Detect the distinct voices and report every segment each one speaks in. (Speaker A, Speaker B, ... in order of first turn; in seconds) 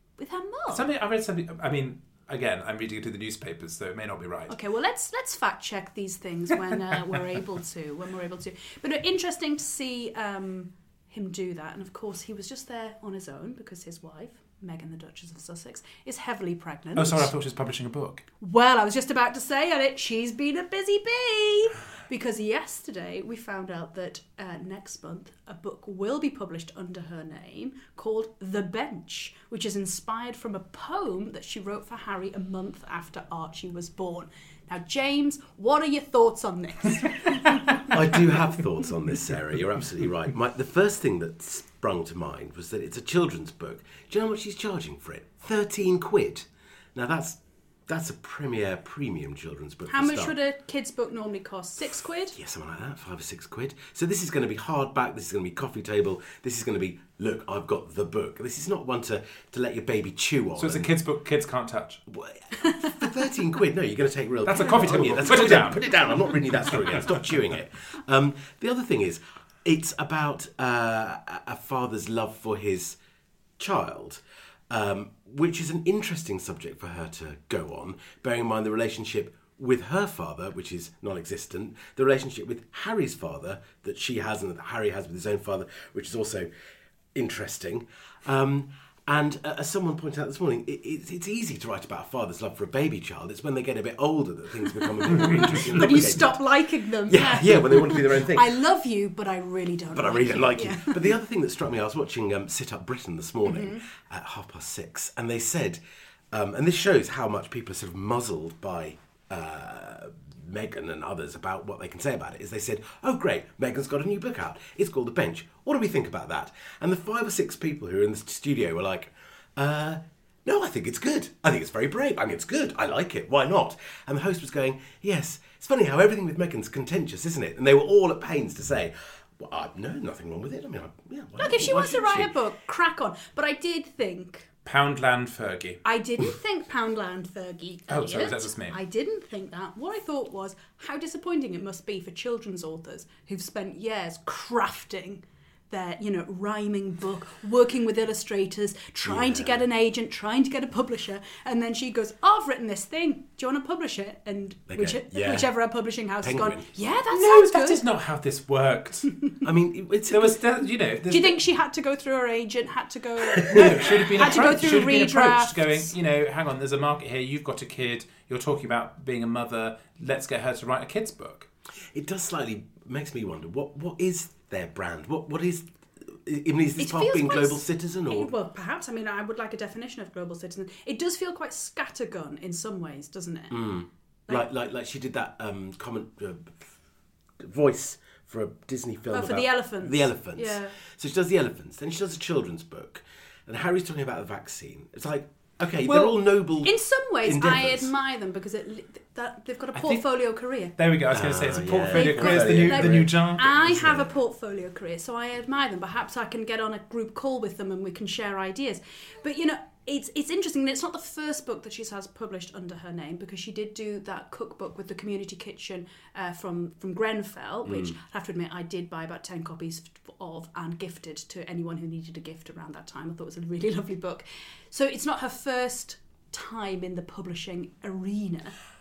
Speaker A: 0.2-0.9, 4.5-17.3, 18.4-38.0, 49.9-52.4, 62.6-63.0, 95.1-101.2, 103.4-103.8, 131.4-134.5, 135.8-157.8, 161.1-165.9, 176.8-183.7, 189.1-190.8, 196.6-200.8, 201.9-228.6
Speaker B: 0.7-4.5, 17.0-18.3, 60.6-62.0, 64.5-65.9, 66.5-67.1, 134.7-135.8, 137.9-138.8, 157.1-159.2, 160.1-161.4, 163.5-171.5, 199.7-200.1, 200.8-203.5
Speaker C: 37.9-50.4, 52.3-60.9, 62.1-73.0, 73.6-86.5, 87.1-96.4, 97.1-98.6, 99.9-105.8, 106.3-132.3, 149.0-149.6, 154.7-155.5, 156.2-156.7, 159.4-160.4, 163.2-164.1, 171.9-178.3, 183.5-186.7, 187.4-197.9, 201.1-204.1, 217.7-217.9